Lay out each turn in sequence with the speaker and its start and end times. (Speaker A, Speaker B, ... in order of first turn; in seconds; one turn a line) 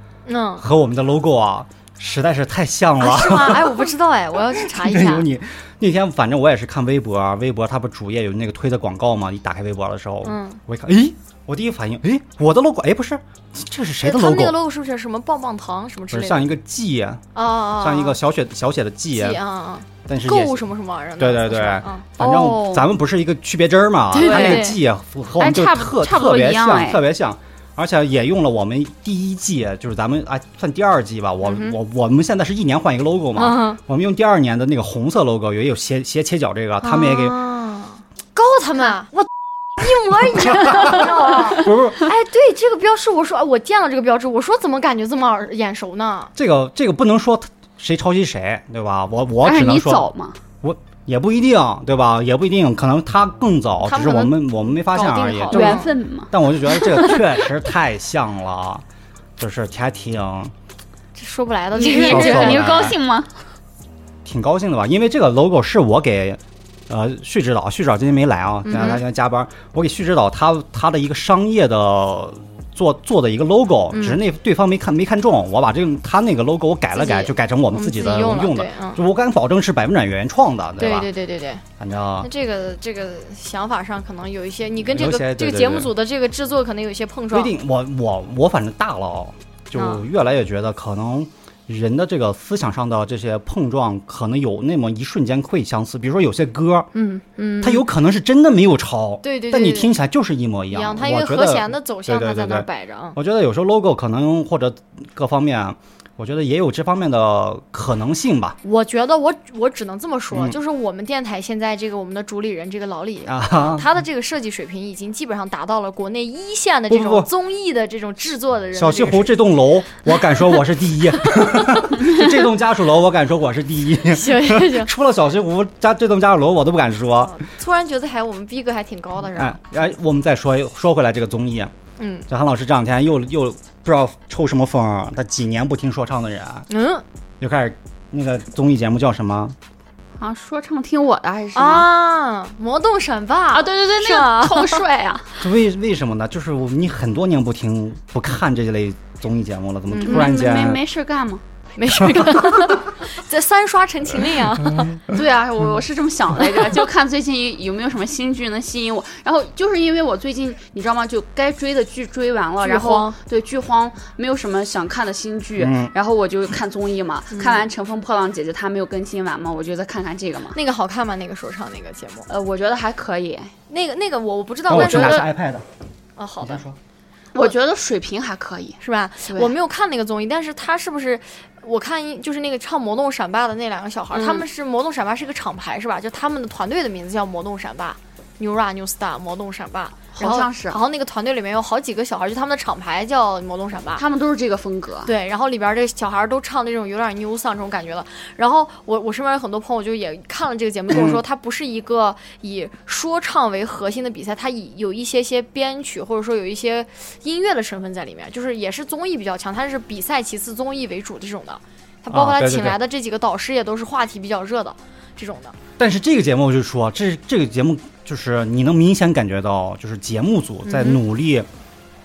Speaker A: 0.2-0.6
Speaker B: 0.6-3.9
Speaker A: 3.0-5.3
Speaker B: 4.6-14.6
Speaker A: 10.2-10.6
Speaker A: 14.0-16.5
Speaker B: 16.1-17.2
Speaker A: 17.4-18.2
Speaker B: 17.8-19.4
Speaker A: 19.1-22.1
Speaker B: 20.1-20.6
Speaker B: 21.2-37.4
Speaker C: 22.2-22.9
Speaker A: 24.1-24.8
Speaker C: 24.2-24.7
Speaker C: 25.4-27.0
Speaker A: 31.4-31.8
Speaker A: 33.4-33.8
Speaker A: 36.8-46.3
Speaker B: 40.4-42.0
Speaker B: 46.4-50.1
Speaker C: 49.4-50.4
Speaker B: 50.6-58.8
Speaker A: 53.8-55.9
Speaker C: 55.1-56.3
Speaker A: 56.8-57.2
Speaker B: 59.4-60.5
Speaker A: 61.1-62.9
Speaker C: 61.8-63.3
Speaker B: 61.9-63.0
Speaker B: 64.2-81.1
Speaker A: 68.7-69.0
Speaker A: 73.9-74.2
Speaker A: 76.9-79.0
Speaker A: 80.8-81.6
Speaker B: 81.8-82.3
Speaker A: 82.2-87.5
Speaker B: 84.9-85.9
Speaker B: 87.3-96.9
Speaker A: 89.8-90.0
Speaker A: 96.9-97.9
Speaker B: 97.6-108.6
Speaker A: 99.2-99.9
Speaker A: 100.7-103.2
Speaker A: 108.6-119.4
Speaker B: 110.3-110.6
Speaker B: 113.2-113.9
Speaker B: 116.9-117.3
Speaker B: 118.8-127.3
Speaker A: 121.2-121.9
Speaker A: 124.1-124.9
Speaker A: 127.2-129.6
Speaker B: 129.3-131.7
Speaker A: 132.0-132.2
Speaker B: 132.3-136.7
Speaker A: 136.7-137.0
Speaker B: 137.4-139.6
Speaker C: 140.2-141.9
Speaker A: 141.6-144.8
Speaker C: 143.5-145.4
Speaker B: 145.4-150.8
Speaker A: 149.9-150.3
Speaker C: 150.0-151.4
Speaker A: 151.8-155.0
Speaker B: 152.0-152.8
Speaker C: 155.1-170.6
Speaker A: 162.6-163.2
Speaker B: 165.6-165.9
Speaker A: 167.3-167.7
Speaker A: 170.5-172.3
Speaker C: 172.3-173.5
Speaker A: 173.7-175.3
Speaker B: 174.7-175.7
Speaker C: 174.7-175.2
Speaker A: 176.2-176.6
Speaker B: 176.4-176.8
Speaker C: 177.3-179.5
Speaker A: 178.8-194.0
Speaker C: 184.1-184.4
Speaker C: 190.2-190.8
Speaker C: 194.0-195.1
Speaker A: 195.1-215.6
Speaker B: 200.9-201.2
Speaker B: 212.1-212.8
Speaker B: 215.8-221.5
Speaker A: 220.6-221.0